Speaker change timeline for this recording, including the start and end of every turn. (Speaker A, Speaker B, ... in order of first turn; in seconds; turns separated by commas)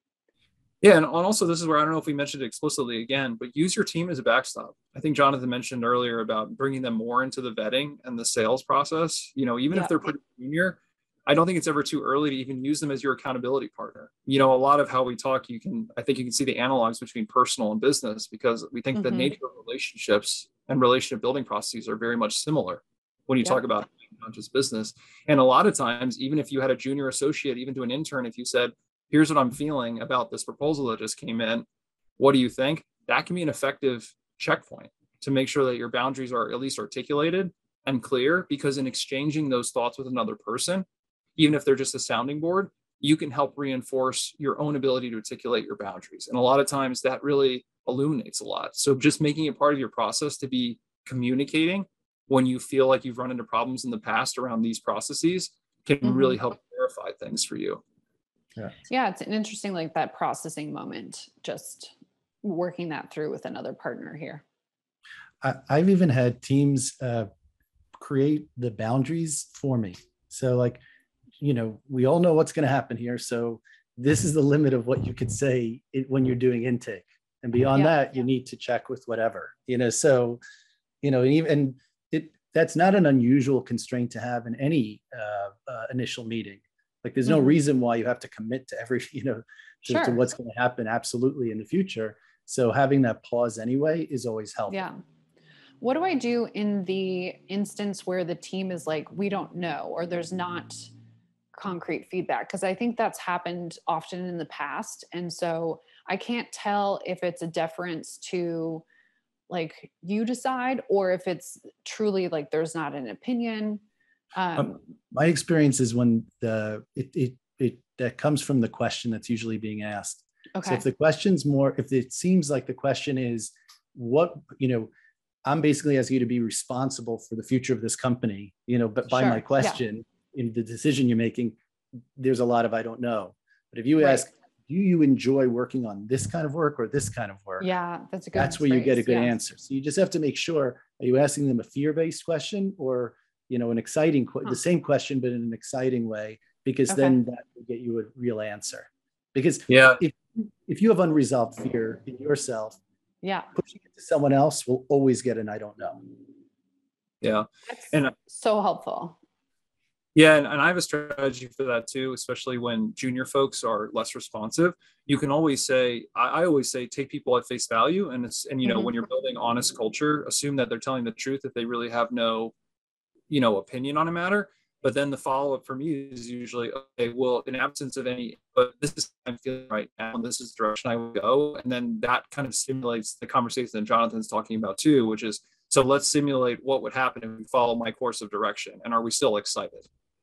Speaker A: 0.8-31.6, Speaker B: 9.7-10.0, Speaker B: 18.9-19.3, Speaker A: 32.2-40.9, Speaker A: 41.4-57.8, Speaker B: 56.0-56.4, Speaker B: 58.9-64.4, Speaker C: 65.4-67.3, Speaker C: 68.0-70.8, Speaker C: 71.4-80.4, Speaker C: 81.0-94.8, Speaker B: 87.2-87.6, Speaker B: 89.8-90.2, Speaker B: 94.7-95.0, Speaker B: 95.8-100.9, Speaker B: 101.5-108.8, Speaker B: 109.5-113.8, Speaker B: 114.3-114.8, Speaker C: 114.5-124.9, Speaker B: 120.5-120.8, Speaker C: 125.5-131.6, Speaker B: 129.1-129.8, Speaker C: 132.2-137.7, Speaker B: 134.0-134.3, Speaker B: 137.6-139.3, Speaker C: 138.3-152.8, Speaker B: 146.9-147.2, Speaker A: 149.7-150.0, Speaker B: 153.2-153.5, Speaker C: 153.5-156.0, Speaker A: 157.2-158.1, Speaker B: 157.7-159.2, Speaker A: 160.1-172.5, Speaker B: 168.6-168.9, Speaker A: 173.3-189.9